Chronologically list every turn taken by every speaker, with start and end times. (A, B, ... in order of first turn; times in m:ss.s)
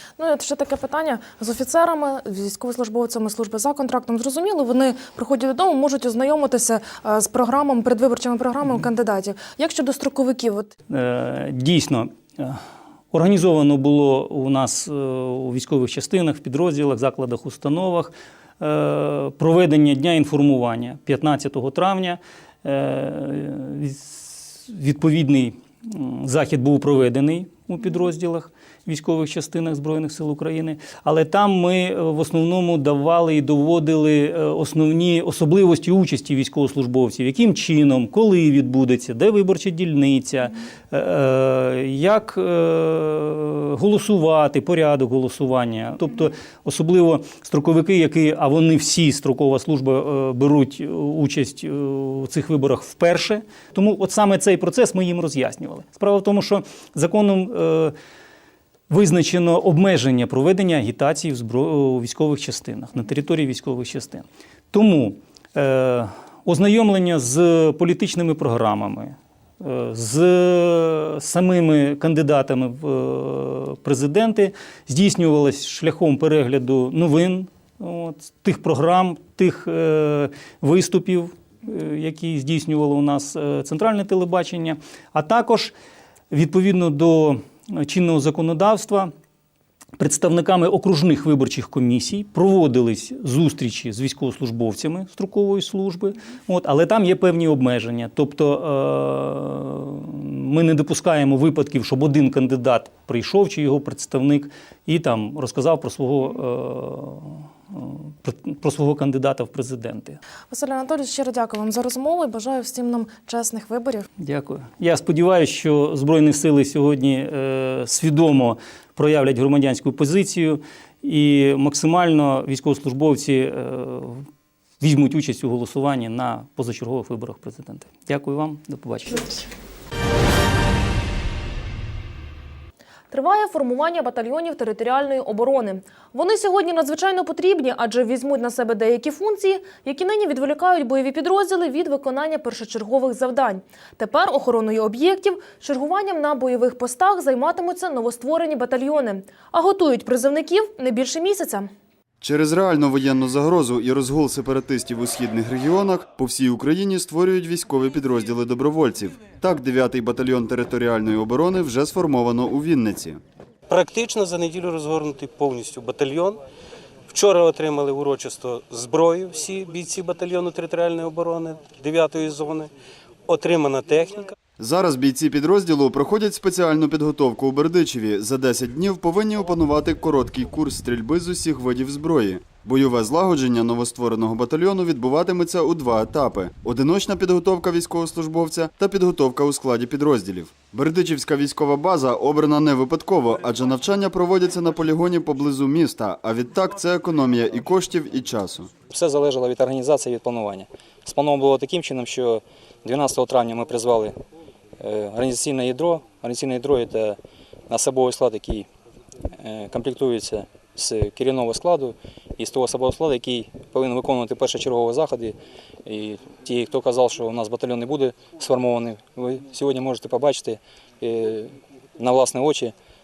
0:00.2-0:10.7 A
0:10.9-0:57.9 B
0:58.9-1:25.7 B
1:26.3-1:29.1 B
1:30.0-1:50.2 B
1:50.5-1:54.0 A
1:54.2-2:04.2 B
2:04.8-2:09.4 B
2:13.1-2:31.7 A
2:32.2-2:43.2 C
2:43.8-2:46.4 D
2:47.1-2:52.7 D
2:53.3-2:54.1 D
2:54.6-3:18.7 C
3:18.9-3:24.1 E
3:24.8-3:27.2 E
3:27.7-3:28.7 E
3:29.4-3:35.3 E
3:35.8-3:42.7 E